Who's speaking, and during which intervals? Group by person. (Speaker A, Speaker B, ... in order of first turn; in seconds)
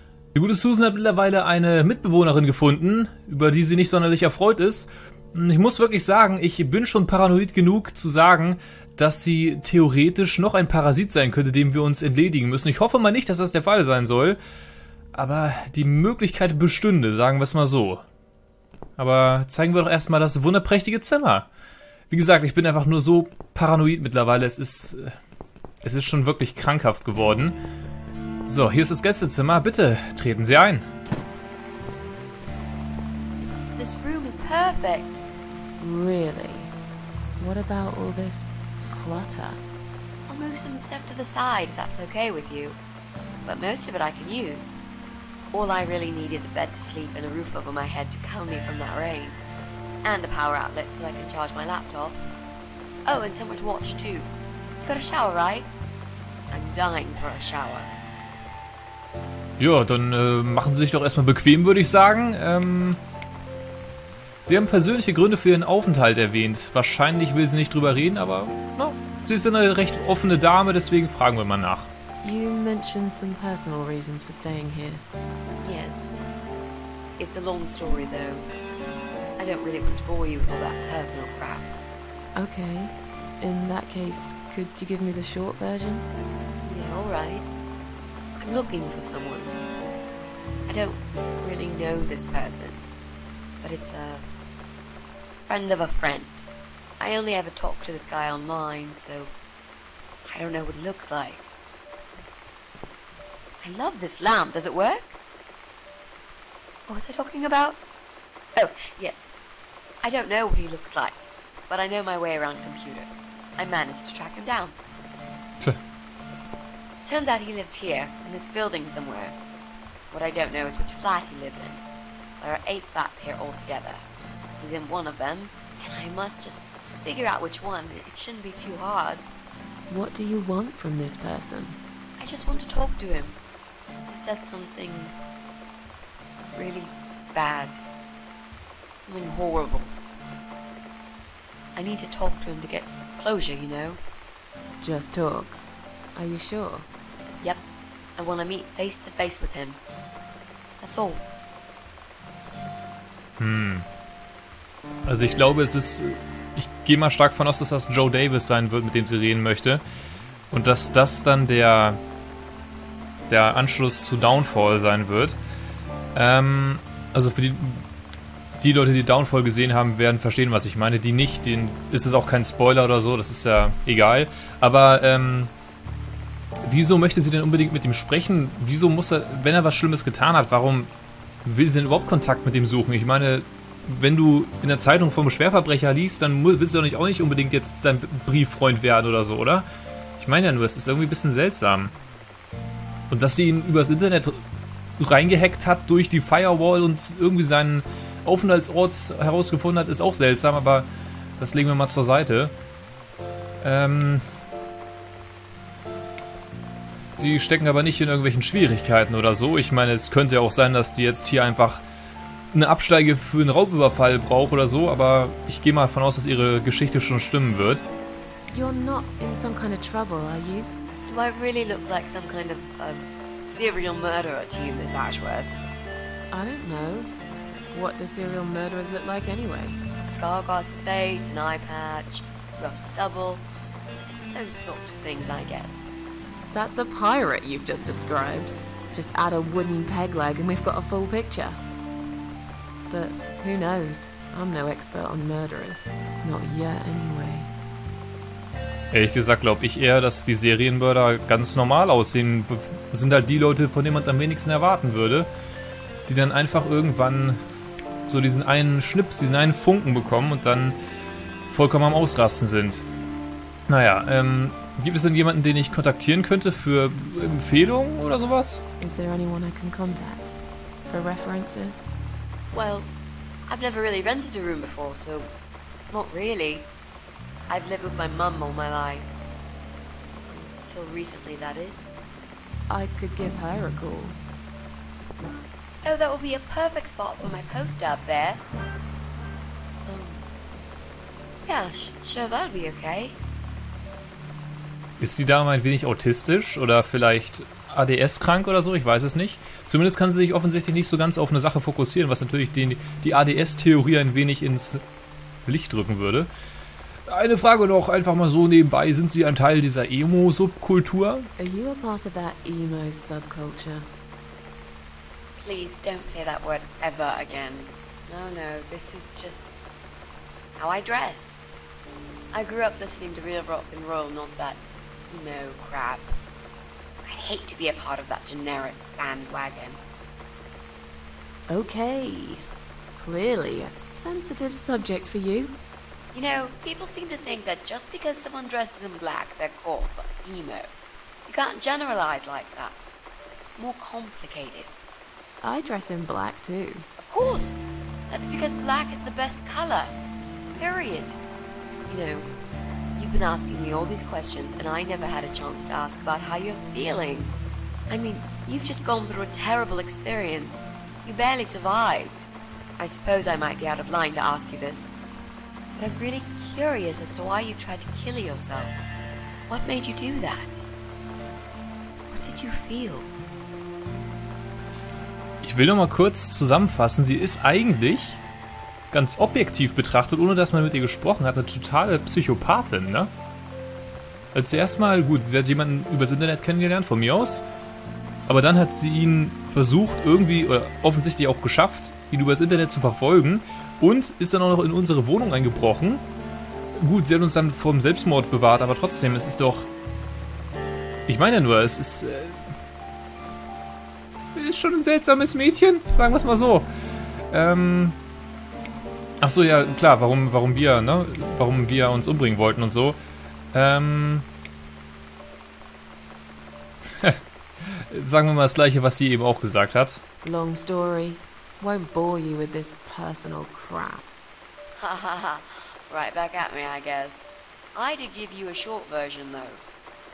Speaker A: 0.3-14.4, 15.1-18.0, 19.0-21.5, 22.1-25.1, 25.8-27.6, 28.4-30.9, 59.6-63.0, 64.4-71.9, 153.4-153.8, 155.1-159.8, 160.5-162.0, 163.3-165.4, 166.1-167.8, 168.6-175.5, 176.6-180.9, 181.4-189.7, 190.2-191.9, 193.1-194.4, 195.0-202.5, 203.6-204.2, 207.2-211.8, 212.5-217.8, 248.9-255.3, 256.1-257.4, 258.1-260.8, 261.5-262.9, 263.7-268.6, 295.0-304.8, 305.4-306.3, 307.1-311.3, 375.4-378.2, 378.9-383.1, 384.3-387.4, 388.3-396.0, 396.7-399.7, 401.1-402.4, 404.3-406.7, 407.3-408.0, 409.2-413.0, 413.5-414.2, 417.7-420.0
Speaker B: 33.8-35.2, 40.3-42.8, 43.4-44.8, 45.5-49.4, 50.0-52.2, 53.0-54.3, 54.8-55.7, 56.5-57.9, 75.6-76.2, 77.2-78.5, 79.4-81.7, 86.6-87.5, 88.4-89.5, 90.7-92.8, 93.6-94.2, 95.5-96.5, 97.0-99.3, 100.3-101.5, 103.6-105.1, 106.9-107.8, 108.5-109.3, 110.0-114.8, 117.0-119.4, 120.1-121.8, 122.4-124.0, 124.6-129.2, 132.2-133.4, 134.1-135.2, 136.5-137.8, 139.0-139.9, 141.7-144.0, 148.2-149.8, 150.8-151.2, 221.1-225.5, 230.1-233.4, 234.3-235.9, 272.5-272.9, 273.5-275.3, 275.9-276.7, 277.5-279.1, 280.2-281.9, 285.8-288.4, 289.8-290.3, 291.4-293.2, 315.4-319.5, 320.6-321.5, 322.3-326.1, 327.0-329.8, 336.1-340.7, 341.2-342.8, 343.4-344.8, 347.0-350.0, 350.5-351.2, 351.9-352.3, 352.9-357.3, 357.9-365.0, 365.8-368.8, 369.5-370.6, 372.1-373.1, 424.8-429.6
Speaker C: 35.8-36.7, 37.4-39.6, 72.2-75.0, 82.4-86.1, 129.9-131.8, 144.8-145.6, 146.2-146.8, 218.5-220.7, 226.3-227.1, 227.7-229.8, 236.5-241.6, 242.9-247.5, 268.8-270.3, 270.9-271.9, 282.7-284.2, 311.4-313.9, 331.5-332.4, 333.0-335.6, 345.4-346.8, 420.2-424.1